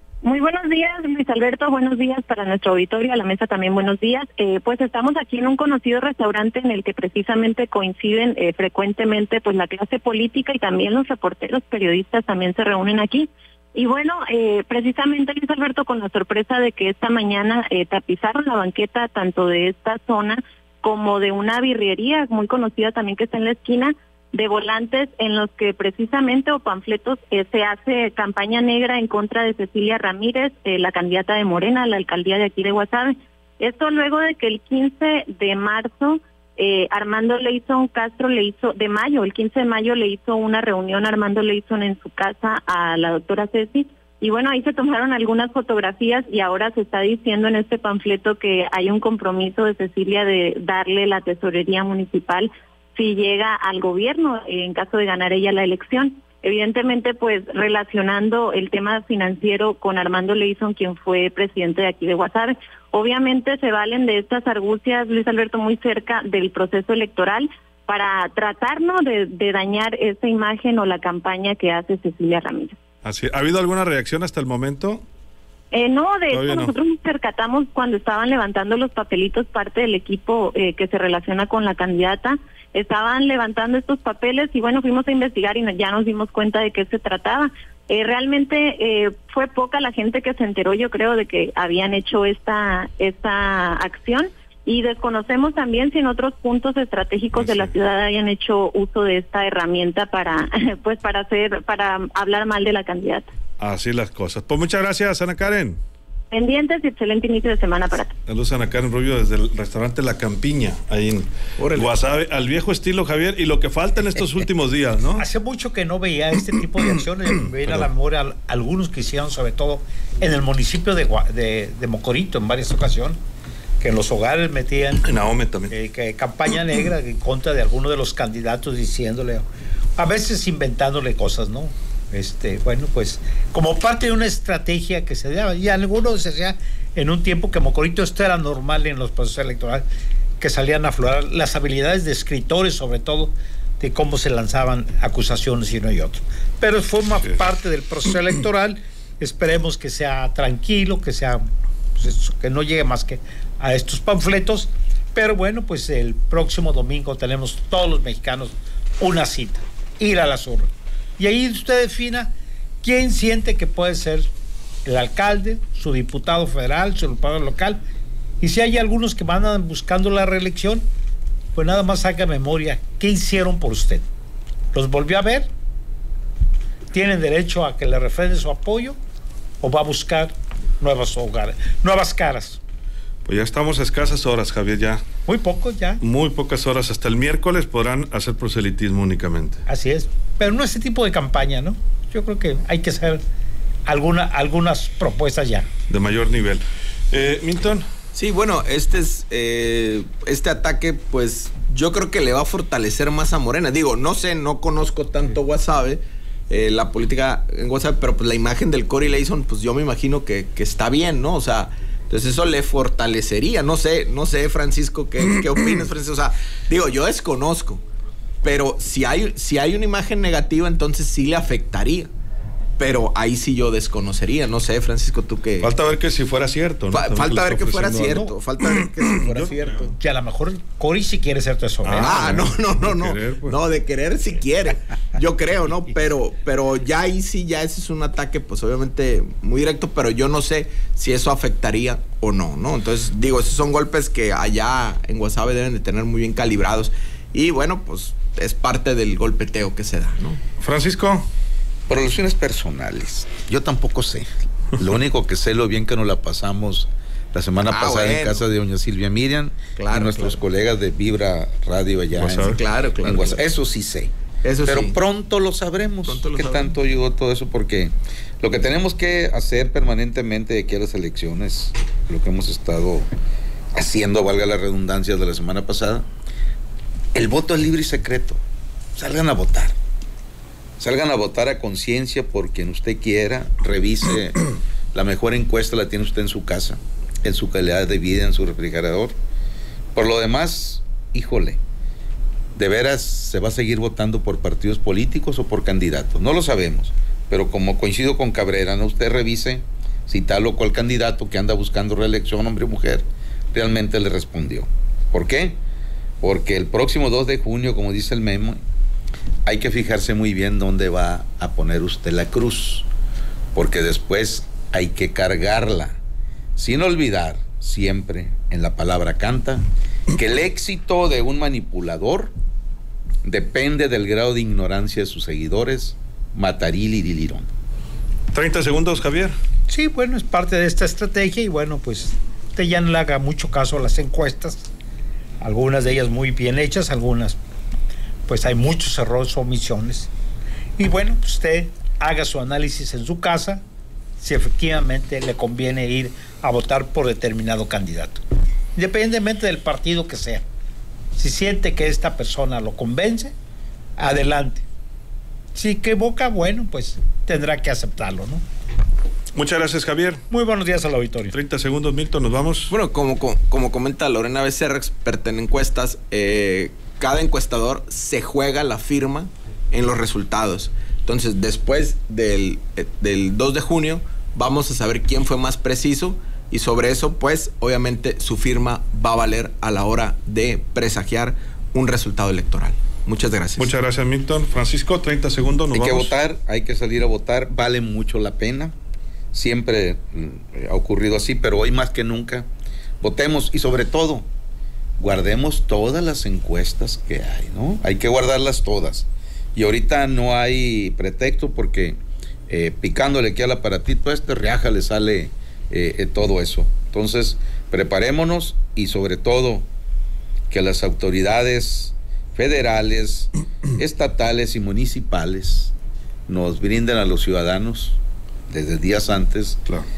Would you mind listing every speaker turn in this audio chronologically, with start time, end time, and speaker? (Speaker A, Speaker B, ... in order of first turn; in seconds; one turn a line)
Speaker A: 0.2-72.8
Speaker B: 73.0-75.0
Speaker A: 75.7-103.3
Speaker B: 76.3-76.7
Speaker B: 97.3-97.7
Speaker B: 103.6-105.8
Speaker A: 106.3-108.1
Speaker B: 108.3-115.2
Speaker C: 111.6-111.9
Speaker D: 115.2-123.2
Speaker D: 123.8-125.1
Speaker B: 125.0-125.7
Speaker D: 125.7-129.4
Speaker D: 130.0-139.8
Speaker D: 140.4-164.3
Speaker D: 164.8-167.8
Speaker D: 168.4-170.8
Speaker D: 171.5-174.0
Speaker D: 174.7-175.5
Speaker D: 176.9-178.9
Speaker D: 179.6-182.6
Speaker B: 183.2-185.0
Speaker D: 185.3-186.0
Speaker B: 186.0-189.6
Speaker D: 189.7-193.2
Speaker D: 193.9-195.7
Speaker B: 195.9-197.8
Speaker C: 198.1-217.8
Speaker C: 218.4-222.1
Speaker C: 222.8-225.7
Speaker B: 225.6-229.6
Speaker C: 226.9-229.9
Speaker D: 230.0-232.5
Speaker B: 231.8-233.6
Speaker C: 232.0-250.4
Speaker B: 250.6-251.3
Speaker E: 251.9-264.1
Speaker C: 257.7-258.4
Speaker C: 259.8-260.4
Speaker B: 262.1-262.6
Speaker C: 262.5-263.4
Speaker C: 264.4-265.0
Speaker E: 264.6-273.1
Speaker C: 266.1-266.7
Speaker E: 273.7-276.1
Speaker E: 277.1-278.4
Speaker E: 278.9-279.8
Speaker E: 280.8-284.4
Speaker E: 284.9-289.1
Speaker E: 289.9-291.6
Speaker E: 292.5-305.6
Speaker E: 306.2-308.6
Speaker E: 309.4-312.9
Speaker E: 313.5-316.0
Speaker E: 316.6-322.3
Speaker E: 323.2-327.5
Speaker B: 328.3-329.3
Speaker D: 329.7-334.7
Speaker D: 335.4-337.4
Speaker D: 338.3-340.1
Speaker D: 340.8-343.6
Speaker D: 344.2-348.2
Speaker D: 348.8-350.4
Speaker D: 351.1-353.3
Speaker D: 354.0-354.6
Speaker D: 355.5-358.4
Speaker B: 359.3-360.2
Speaker D: 360.3-361.3
Speaker B: 361.3-362.7
Speaker C: 362.7-383.7
Speaker B: 383.6-386.1
Speaker E: 385.7-388.7
Speaker E: 389.3-392.5
Speaker E: 393.0-394.3
Speaker E: 395.0-402.0
Speaker E: 402.5-409.7
Speaker E: 410.5-415.7
Speaker E: 416.3-419.6